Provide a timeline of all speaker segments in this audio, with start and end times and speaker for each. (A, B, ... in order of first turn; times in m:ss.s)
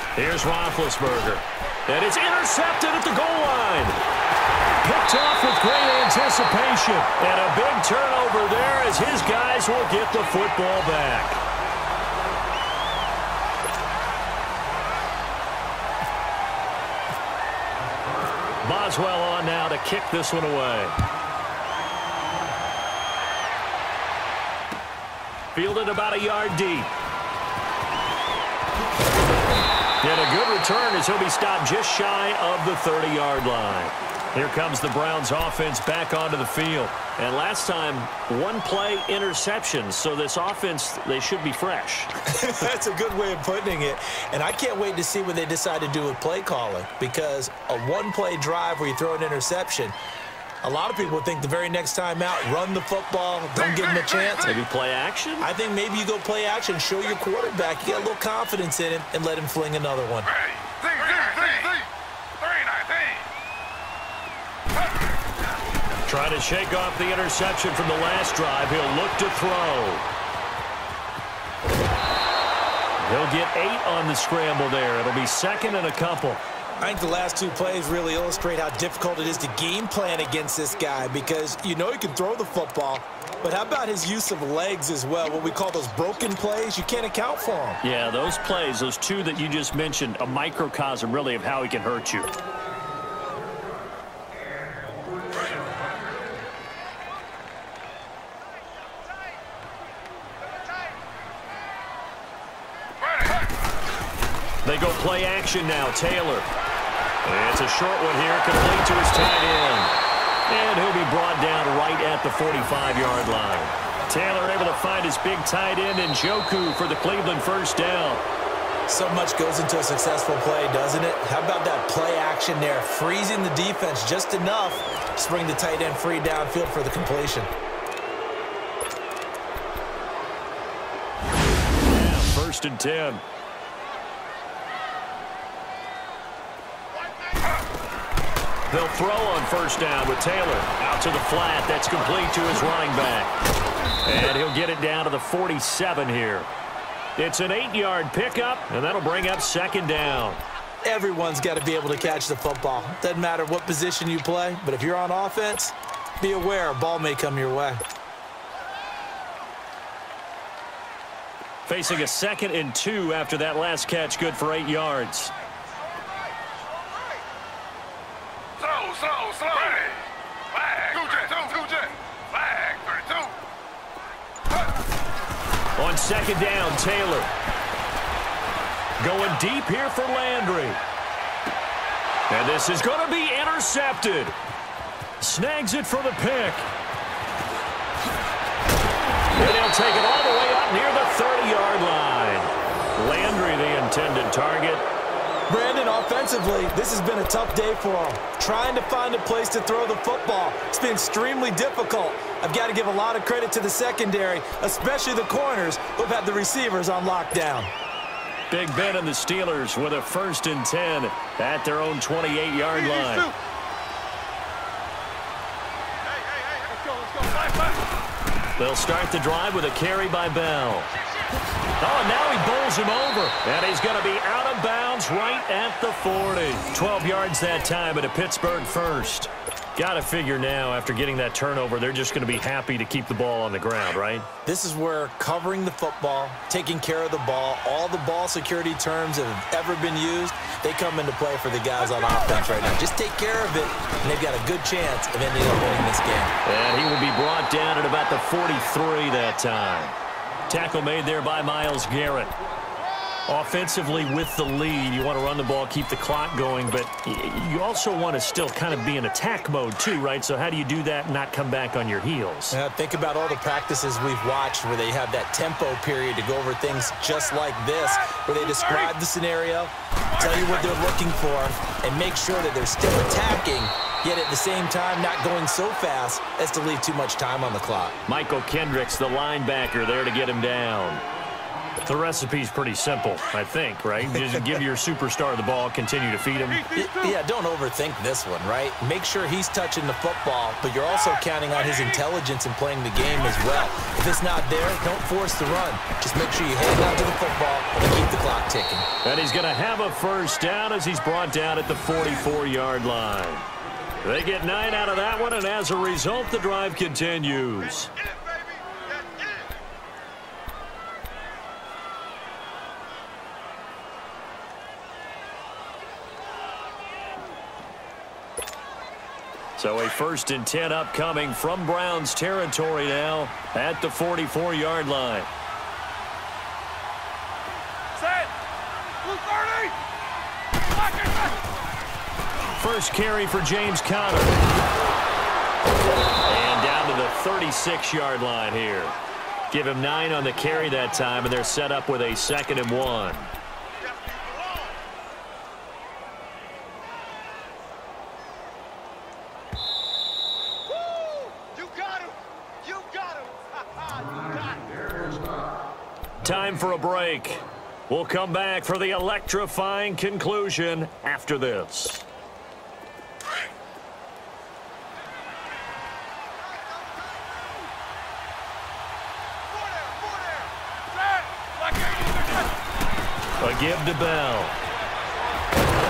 0:00.2-0:04.0 A
0:04.8-0:11.4 A
0:18.6-0:21.0 A
0:25.5-0:26.9 A
0:30.0-0:42.1 A
0:42.2-0:50.0 B
0:50.6-0:54.5 B
0:54.4-0:55.5 A
0:55.4-1:00.3 B
1:06.1-1:10.1 A
1:13.0-1:16.4 A
1:16.8-1:27.8 B
1:27.8-1:32.3 A
1:44.6-1:46.5 A
1:47.2-1:49.9 A
1:50.5-1:58.2 A
1:58.9-2:07.5 B
2:11.8-2:13.2 A
2:18.7-2:23.3 A
2:24.0-2:26.5 A
2:27.2-2:30.4 A
2:30.8-2:37.8 B
2:41.7-2:45.3 A
2:46.0-2:47.0 C
2:55.8-2:57.3 A
2:59.0-3:00.8 A
3:02.3-3:04.4 A
3:05.2-3:06.7 A
3:09.3-3:14.8 A
3:15.5-3:27.7 B
3:28.5-3:33.3 A
3:32.7-3:33.4 C
3:36.6-3:37.8 C
3:38.6-3:40.9 A
3:41.8-3:54.3 A
3:54.4-4:06.4 B
4:06.4-4:10.0 A
4:10.5-4:12.4 A
4:13.3-4:22.6 A
4:22.5-4:38.0 B
4:26.9-4:28.9 C
4:30.1-4:30.8 C
4:38.1-4:41.0 A
4:41.8-4:46.7 A
4:44.2-4:44.6 B
4:46.5-4:47.2 C
4:46.7-4:58.9 B
4:59.0-5:03.5 A
5:04.0-5:07.9 A
5:19.6-5:25.3 A
5:28.0-5:28.3 C
5:29.0-5:29.8 C
5:30.6-5:31.5 C
5:32.6-5:34.4 A
5:36.3-5:39.0 A
5:39.5-5:43.3 A
5:44.1-5:44.4 C
5:51.1-5:53.4 C
5:56.2-6:02.1 A
6:09.9-6:10.2 C
6:10.9-6:12.6 C
6:13.4-6:14.6 A